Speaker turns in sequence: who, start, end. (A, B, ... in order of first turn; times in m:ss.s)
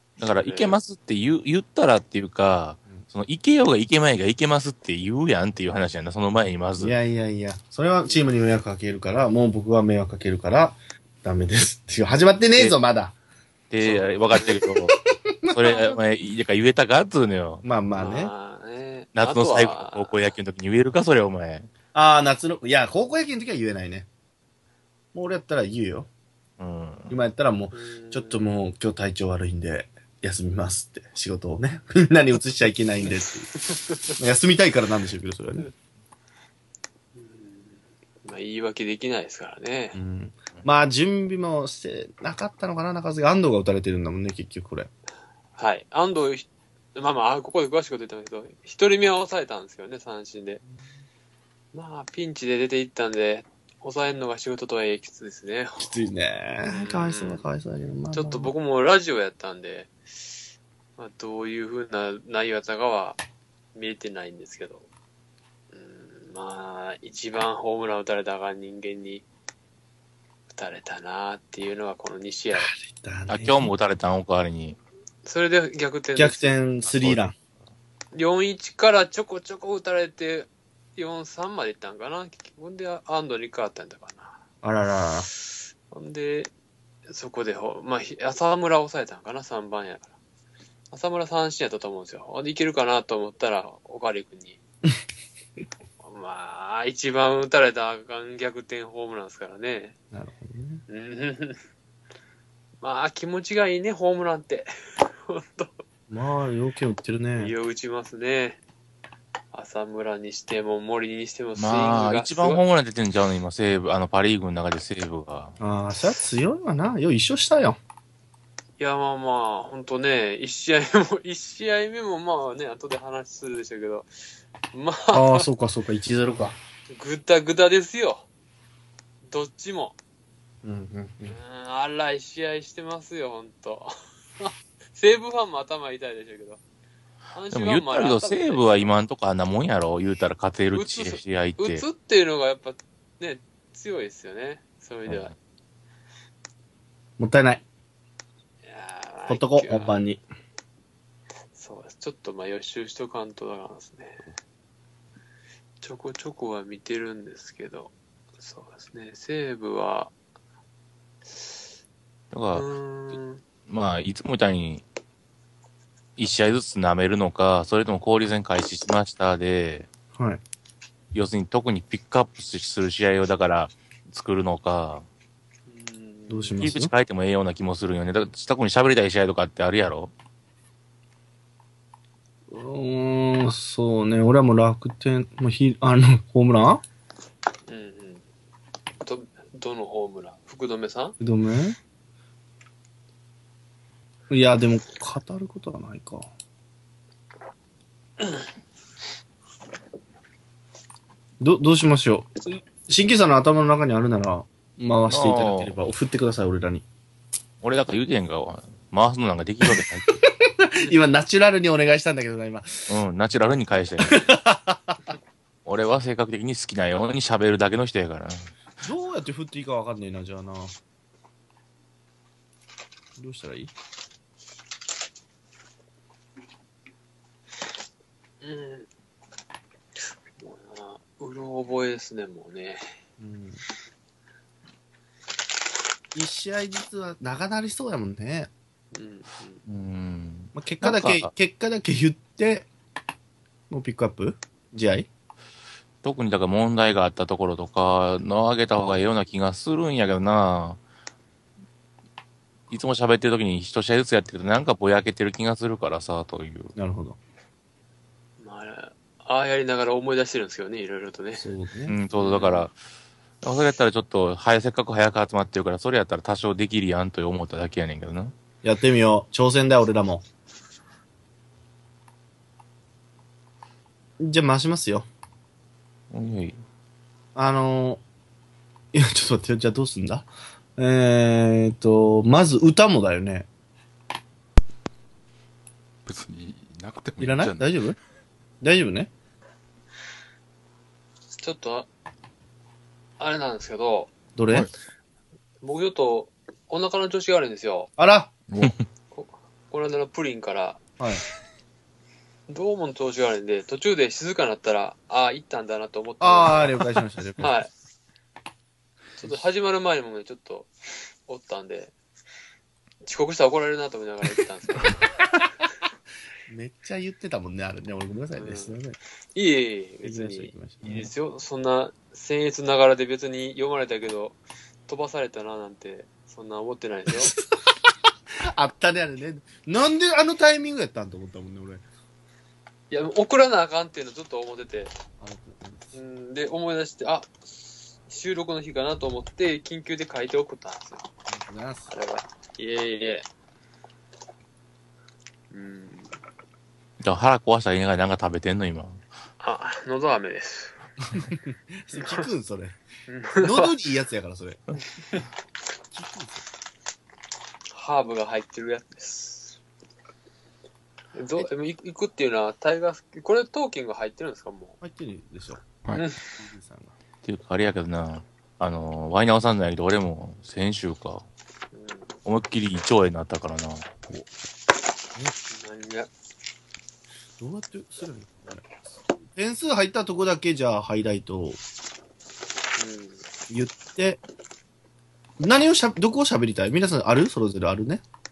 0:00.2-0:07.0 A
0:00.2-0:00.8 B
0:06.8-0:13.2 C
0:13.7-0:17.6 A
0:13.8-0:14.6 B
0:14.9-0:16.0 C
0:17.6-0:18.3 C
0:18.0-0:20.3 B
0:19.2-0:21.7 A
0:21.9-0:24.1 C
0:25.1-0:26.1 C
0:26.6-0:27.2 A
0:27.1-0:33.5 C
0:27.7-0:28.5 B
0:33.7-0:34.1 B
0:34.2-0:35.7 C
0:37.2-0:40.0 B
0:40.0-0:44.9 C
0:45.6-0:50.6 B
0:51.7-0:55.9 B
0:55.8-0:58.5 C
0:56.6-0:57.4 B
0:58.1-0:59.9 B
1:01.0-1:03.2 B
1:03.8-1:04.9 B
1:05.7-1:09.2 B
1:10.5-1:12.7 B
1:12.5-1:13.7 C
1:13.3-1:14.8 A
1:15.2-1:16.6 B
1:16.2-1:17.4 C
1:16.8-1:17.2 A
1:18.1-1:24.4 B
1:24.6-1:25.3 C
1:25.6-1:26.5 B
1:27.1-1:30.1 B
1:30.9-1:34.6 B
1:36.0-1:40.0 B
1:40.1-1:40.8 C
1:40.9-1:41.6 B
1:42.8-1:45.8 B
1:46.1-1:47.5 C
1:47.4-1:48.6 B
1:49.5-1:52.6 B
1:51.6-1:55.6 A
1:55.6-1:57.8 C
1:58.8-2:04.1 B
2:04.7-2:05.5 B
2:05.1-2:06.6 C
2:06.9-2:08.3 B
2:09.3-2:10.0 B
2:10.6-2:11.4 C
2:11.3-2:16.6 B
2:17.3-2:18.9 B
2:17.5-2:21.8 A
2:20.7-2:25.3 B
2:27.2-2:27.6 C
2:28.7-2:30.0 B
2:29.3-2:30.2 C
2:31.5-2:34.3 B
2:35.8-2:40.1 B
2:42.3-2:42.7 A
2:42.5-2:43.4 B
2:43.7-2:44.8 A
2:46.2-2:49.9 A
2:50.2-2:50.4 C
2:51.1-2:55.0 A
2:55.7-2:56.6 B
2:56.3-2:56.9 C
2:56.6-3:00.1 A
3:02.5-3:06.8 C
3:07.7-3:08.2 B
3:09.0-3:11.2 B
3:11.2-3:11.8 C
3:14.3-3:16.3 C
3:21.4-3:26.8 C
3:25.1-3:25.8 A
3:27.6-3:30.1 A
3:29.7-3:32.9 C
3:32.9-3:34.3 A
3:34.0-3:35.2 C
3:35.7-3:38.5 A
3:38.8-3:40.8 C
3:43.2-3:43.7 C
3:48.4-3:48.9 B
3:50.4-3:52.9 B
3:53.2-3:53.6 C
3:56.1-3:58.5 C
3:58.9-3:59.6 B
3:59.7-4:01.3 A
4:00.6-4:02.7 C
4:03.7-4:05.1 C
4:06.0-4:10.8 A
4:12.7-4:16.7 A
4:16.8-4:17.2 C
4:18.4-4:21.5 B
4:21.4-4:22.0 C
4:21.9-4:22.7 A
4:22.1-4:22.7 B
4:23.4-4:28.3 A
4:28.6-4:30.2 C
4:34.2-4:35.1 C
4:36.1-4:36.6 A
4:37.4-4:38.0 C
4:38.9-4:43.5 C
4:46.0-4:47.7 D
4:47.2-4:48.0 C
4:48.6-4:49.1 C
4:51.4-4:51.9 B
4:53.2-4:54.1 B
4:54.4-4:54.7 C
4:55.6-4:57.9 B
4:58.0-4:58.3 C
4:58.5-4:58.8 D
4:59.1-5:00.8 B
5:01.0-5:01.2 C
5:02.5-5:06.8 B
5:06.2-5:07.5 C
5:07.4-5:07.7 B
5:09.2-5:10.7 B
5:11.3-5:11.9 B
5:13.0-5:15.2 B
5:16.5-5:19.0 C
5:18.4-5:18.8 B
5:19.3-5:27.4 B
5:20.0-5:21.1 C
5:27.1-5:27.7 C
5:28.4-5:31.8 C
5:32.9-5:34.9 B
5:35.2-5:36.0 C
5:35.9-5:41.1 B
5:41.3-5:41.9 C
5:41.9-5:43.3 B
5:45.5-5:46.2 B
5:47.0-5:49.0 A
5:49.4-5:50.8 B
5:51.1-5:52.8 C
5:51.9-5:52.3 B
5:53.1-5:53.8 B
5:53.4-5:54.6 C
5:55.9-5:56.4 C
5:57.7-5:59.6 B
6:01.1-6:04.8 B
6:04.8-6:05.6 C
6:05.9-6:06.2 B
6:06.3-6:07.0 C
6:07.2-6:11.3 A
6:11.7-6:12.1 B
6:12.2-6:13.9 A
6:15.5-6:16.1 B
6:17.4-6:21.6 C
6:22.8-6:23.2 B
6:23.5-6:24.2 C
6:25.4-6:28.0 C